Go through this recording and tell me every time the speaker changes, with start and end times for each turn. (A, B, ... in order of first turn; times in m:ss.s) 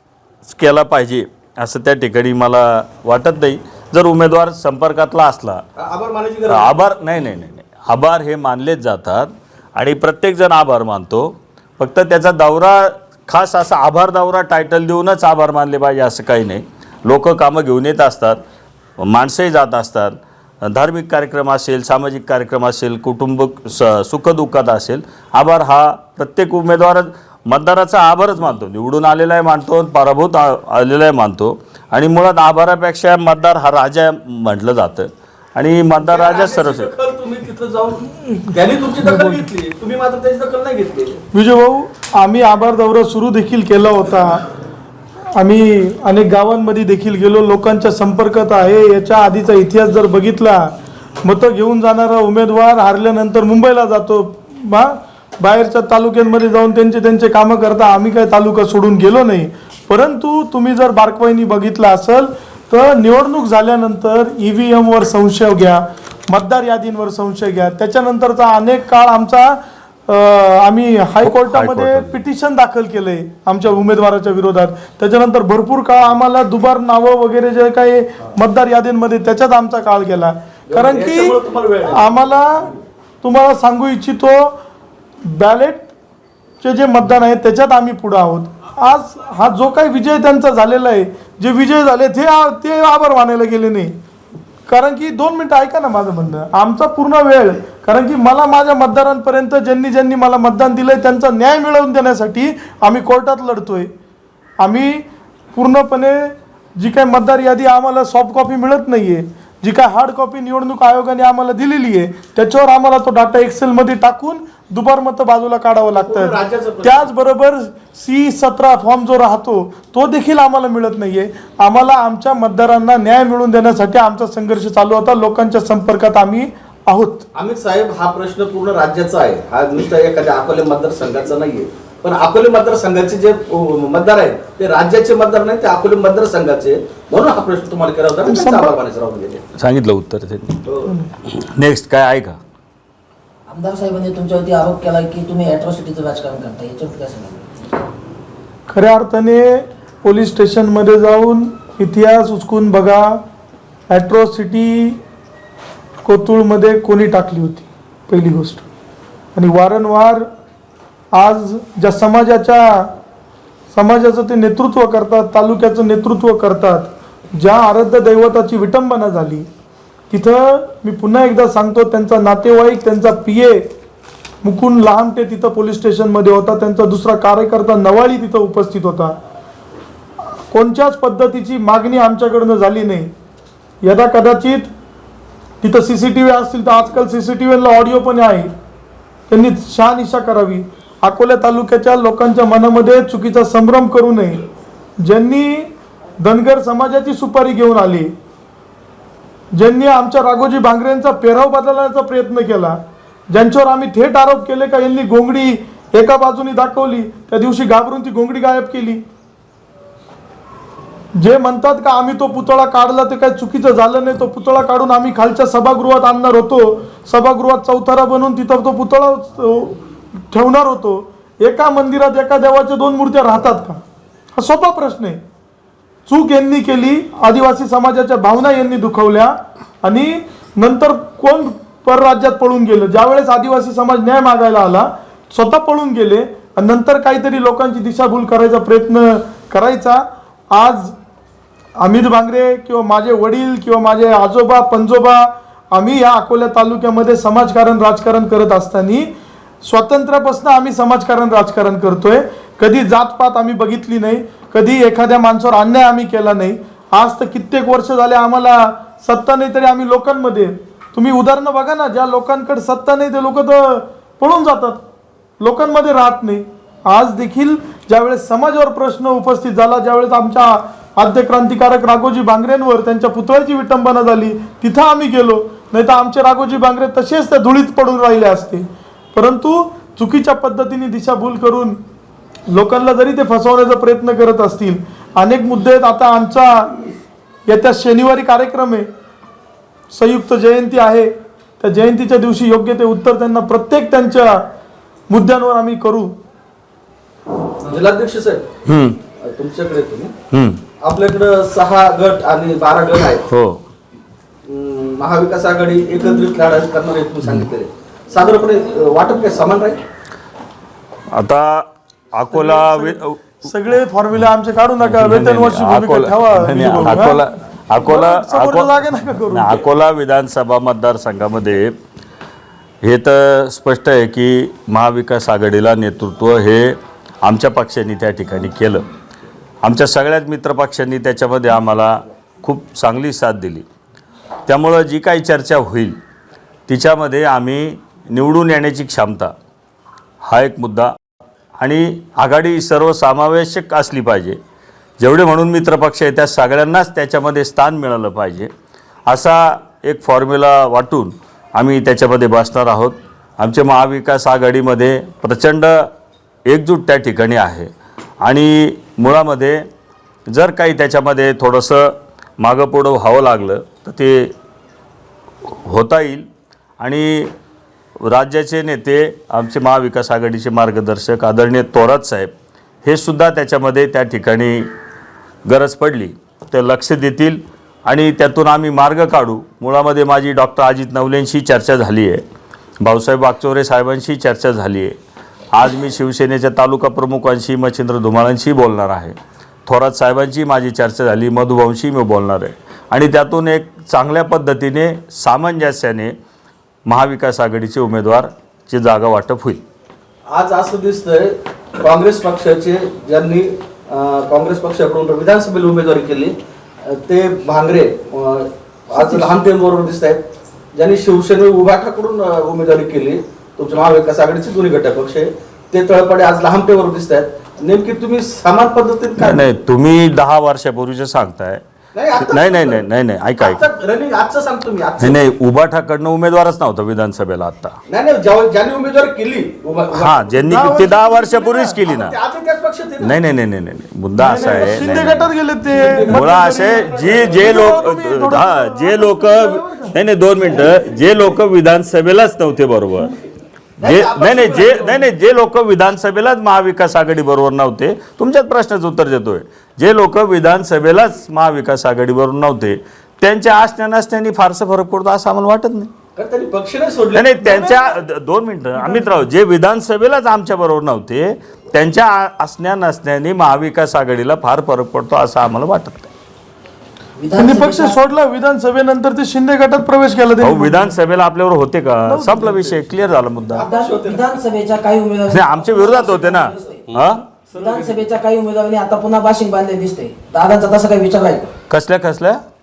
0:00.4-0:05.6 A
0:05.8-0:06.8 B
0:06.5-0:18.4 A
0:19.0-0:36.9 A
0:36.0-0:41.2 B
0:39.1-0:39.4 C
0:41.3-0:44.4 C
0:45.4-0:50.7 C
0:51.2-1:24.6 C
1:11.2-1:12.2 A
1:20.7-1:22.3 B
1:25.2-1:25.9 C
1:26.6-1:34.0 C
1:34.7-1:43.9 C
1:44.6-2:07.2 C
1:55.9-1:57.1 B
2:07.3-2:19.4 B
2:18.2-2:18.8 C
2:19.6-2:20.6 A
2:20.6-2:20.9 B
2:20.9-2:21.1 C
2:21.2-2:22.4 A
2:23.5-2:27.5 D
2:28.7-2:33.2 C
2:33.9-2:35.0 C
2:36.0-2:38.6 C
2:39.4-2:40.3 C
2:41.1-2:42.9 C
2:43.7-2:49.5 C
2:50.1-2:53.7 C
2:54.4-2:59.2 C
3:00.5-3:03.1 C
3:03.8-3:04.7 C
3:05.6-3:08.5 C
3:09.3-3:14.4 C
3:15.0-3:18.1 C
3:19.5-3:22.8 C
3:23.3-3:29.0 C
3:31.1-3:39.8 C
3:40.3-3:43.8 C
3:44.4-3:45.2 C
3:46.1-4:01.0 C
4:01.8-4:09.1 C
4:09.6-4:24.8 C
4:25.4-4:41.8 C
4:42.5-4:46.7 C
4:47.5-4:48.9 C
4:49.9-4:54.5 C
4:55.1-4:56.1 C
4:57.6-4:58.5 B
4:58.6-4:59.0 A
4:59.2-5:00.1 B
5:00.3-5:00.6 A
5:00.8-5:03.2 B
5:03.3-5:03.6 A
5:04.5-5:09.8 B
5:11.1-5:13.4 A
5:12.3-5:17.2 C
5:14.8-5:21.8 A
5:17.8-5:19.6 C
5:22.8-5:28.9 A
5:29.6-5:33.6 A
5:34.5-5:36.0 A
5:36.7-5:39.3 A
5:40.2-5:40.9 A
5:41.6-5:44.4 A
5:45.0-5:48.5 A
5:49.1-5:55.9 A
5:56.5-5:59.6 A
6:00.3-6:04.3 A
6:05.5-6:06.2 A
6:06.8-6:07.3 A
6:08.0-6:12.3 A
6:12.8-6:14.7 A
6:15.5-6:22.2 A
6:22.8-6:25.0 A
6:25.5-6:36.1 A
6:36.9-6:39.6 A
6:40.3-6:46.4 B
6:46.9-6:59.4 B
6:59.2-7:01.6 A
7:02.0-7:02.8 B
7:02.1-7:03.6 A
7:03.4-7:05.2 B
7:05.0-7:07.8 A
7:07.9-7:10.9 B
7:09.9-7:12.1 A
7:10.5-7:11.8 C
7:11.8-7:13.2 B
7:13.0-7:15.3 A
7:14.2-7:20.0 C
7:14.3-7:15.0 B
7:15.7-7:17.8 B
7:16.1-7:23.1 A
7:23.8-7:25.0 B
7:23.8-7:35.9 A
7:36.2-7:37.6 B
7:37.1-7:46.1 A
7:37.5-7:37.9 C
7:38.8-7:39.1 C
7:47.2-7:48.0 D
7:47.4-7:50.9 C
7:50.4-7:53.6 A
7:52.1-7:52.8 C
7:53.5-7:54.5 B
7:53.7-7:56.8 D
7:55.3-7:57.2 A
7:57.5-7:58.0 B
7:57.6-8:01.5 D
8:01.7-8:02.4 A